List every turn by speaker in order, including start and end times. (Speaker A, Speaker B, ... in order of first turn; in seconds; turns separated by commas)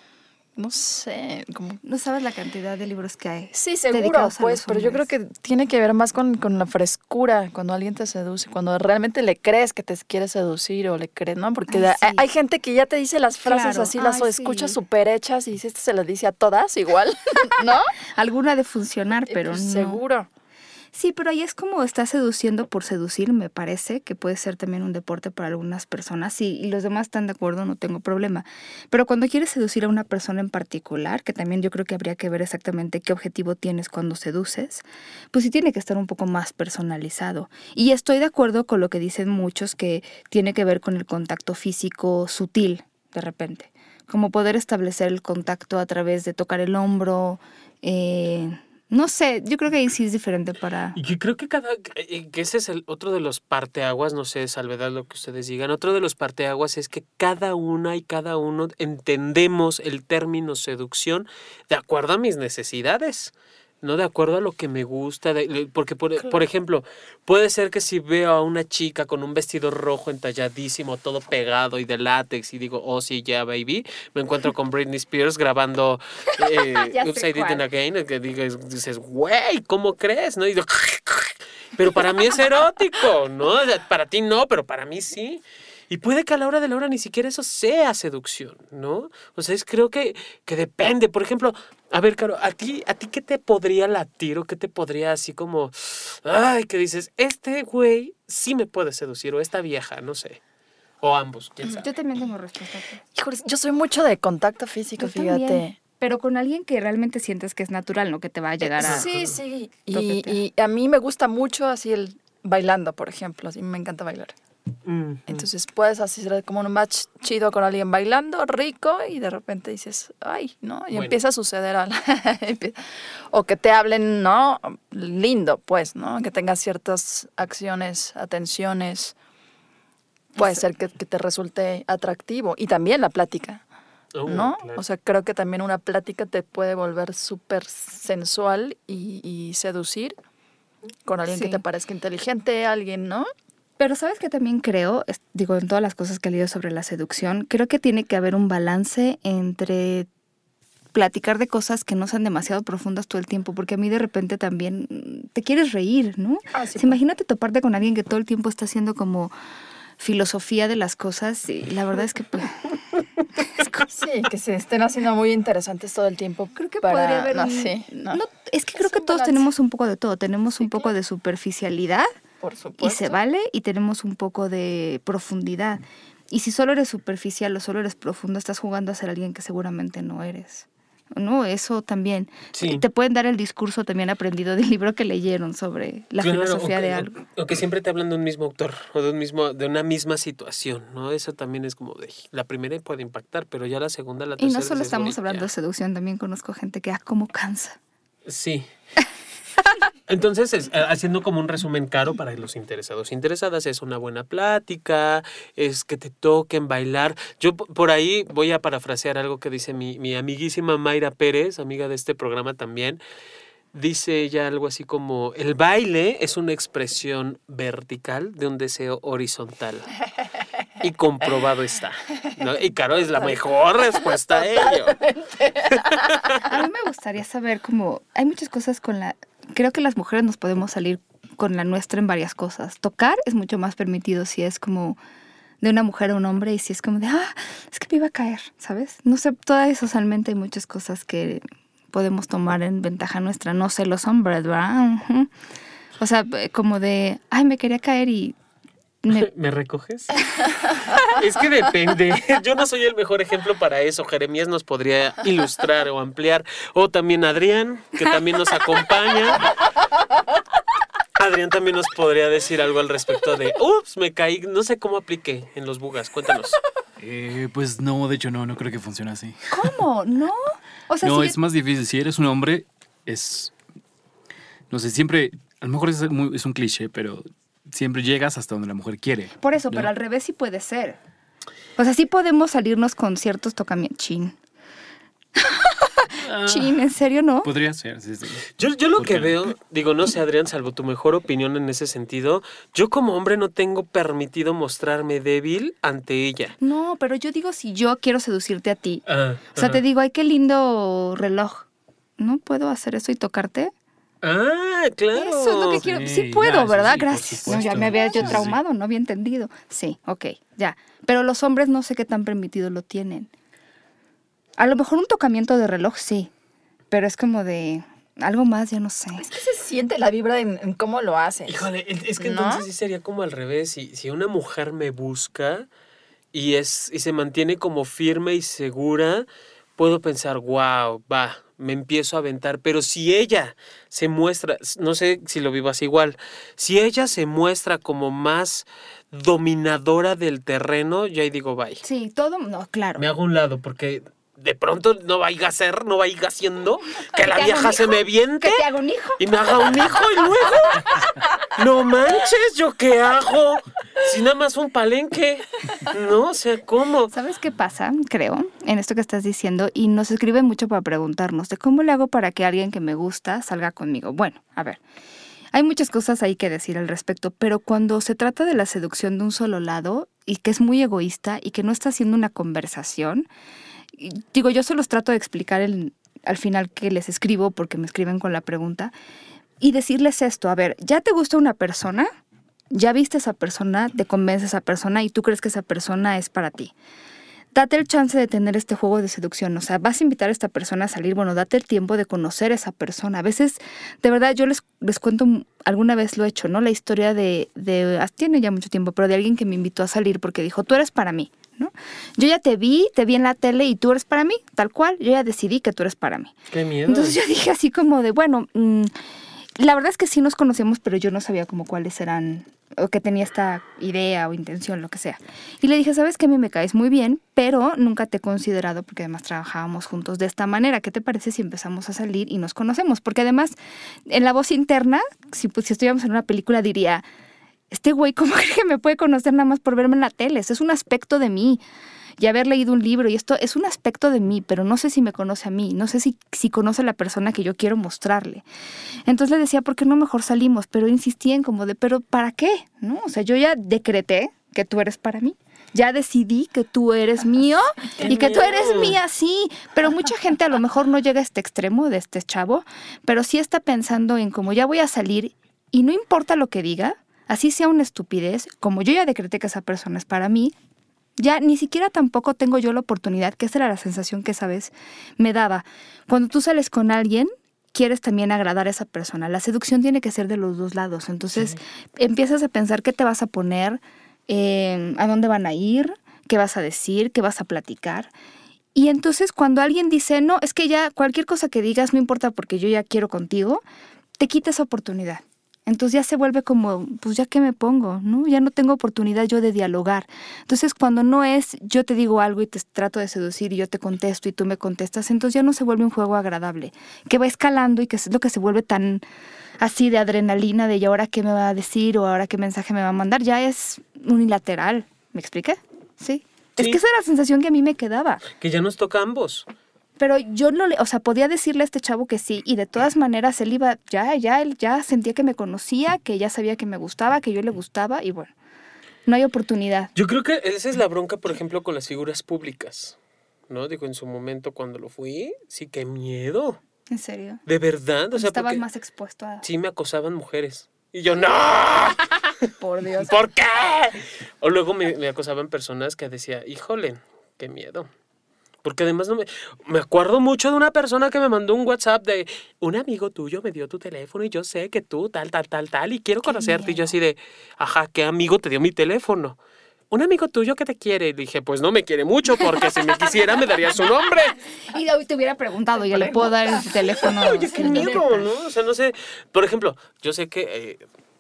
Speaker A: 0.6-1.8, Speaker B: 1.8-5.1, Speaker A: 3.5-17.9, Speaker B: 11.7-12.3, Speaker B: 13.4-14.8, Speaker B: 18.2-20.0, Speaker A: 19.3-20.3, Speaker B: 20.9-51.0, Speaker C: 51.0-100.4, Speaker B: 76.3-77.7, Speaker C: 101.0-101.9, Speaker B: 101.7-103.0, Speaker A: 103.2-105.8, Speaker B: 105.0-109.1, Speaker A: 108.6-114.3, Speaker C: 108.8-109.4, Speaker B: 109.9-110.4, Speaker C: 114.9-115.5, Speaker A: 115.3-122.8, Speaker C: 120.9-121.2, Speaker A: 123.3-129.2, Speaker A: 130.4-133.6, Speaker C: 134.2-134.8, Speaker A: 134.3-140.2, Speaker A: 141.1-143.3, Speaker B: 141.3-141.6, Speaker B: 143.8-150.1, Speaker B: 150.9-159.3, Speaker A: 156.5-157.0, Speaker B: 160.0-162.8, Speaker B: 163.6-163.8, Speaker A: 163.9-168.2, Speaker B: 166.6-172.1, Speaker A: 168.8-169.5, Speaker A: 170.6-170.9, Speaker A: 172.4-173.2, Speaker B: 172.8-187.2, Speaker C: 182.5-182.8, Speaker C: 186.2-195.5, Speaker B: 194.4-197.8, Speaker C: 198.3-198.7, Speaker C: 200.1-213.0, Speaker C: 213.7-219.9, Speaker C: 220.8-225.0, Speaker A: 224.3-226.4, Speaker C: 225.7-226.5, Speaker B: 226.5-235.0, Speaker B: 235.6-245.3, Speaker B: 246.0-248.3, Speaker B: 249.0-249.3, Speaker C: 249.1-259.5, Speaker C: 261.2-266.6, Speaker D: 267.0-269.7, Speaker B: 269.5-271.4, Speaker D: 271.0-273.5, Speaker D: 274.7-279.9, Speaker B: 279.4-281.0, Speaker B: 281.8-284.4, Speaker B: 285.4-287.5, Speaker D: 286.2-286.8, Speaker D: 287.4-289.4, Speaker C: 288.6-296.6, Speaker B: 296.6-299.0, Speaker C: 299.1-299.8, Speaker B: 299.6-301.7, Speaker B: 302.2-303.7, Speaker C: 304.2-305.8, Speaker B: 305.1-313.3, Speaker D: 305.8-308.6, Speaker B: 314.6-316.3, Speaker B: 316.9-319.3, Speaker A: 319.2-322.6, Speaker C: 321.5-325.7, Speaker C: 326.3-341.8, Speaker B: 341.8-343.0, Speaker C: 343.0-348.6, Speaker B: 347.2-349.2, Speaker C: 349.2-357.1, Speaker B: 357.1-364.8, Speaker B: 365.5-373.3, Speaker B: 374.0-378.9, Speaker B: 379.6-382.1, Speaker B: 382.7-386.7, Speaker B: 387.5-406.3, Speaker C: 406.5-407.2, Speaker B: 406.9-408.9, Speaker B: 409.6-427.0, Speaker B: 427.7-431.6, Speaker B: 432.2-438.4, Speaker B: 439.1-460.5, Speaker C: 448.0-449.0, Speaker B: 461.2-478.1, Speaker B: 478.8-483.6, Speaker B: 484.2-499.0, Speaker B: 499.6-508.2, Speaker C: 508.4-509.5, Speaker B: 510.0-518.3, Speaker B: 519.1-519.9, Speaker C: 520.0-523.0, Speaker C: 523.5-526.6, Speaker B: 526.9-527.4, Speaker C: 527.5-528.6, Speaker B: 528.1-529.5, Speaker C: 529.4-532.4, Speaker B: 532.6-533.2, Speaker C: 533.0-537.9, Speaker C: 538.6-549.4, Speaker B: 546.2-546.9, Speaker C: 549.9-554.4, Speaker B: 554.7-558.3, Speaker A: 555.8-558.0, Speaker C: 557.1-560.8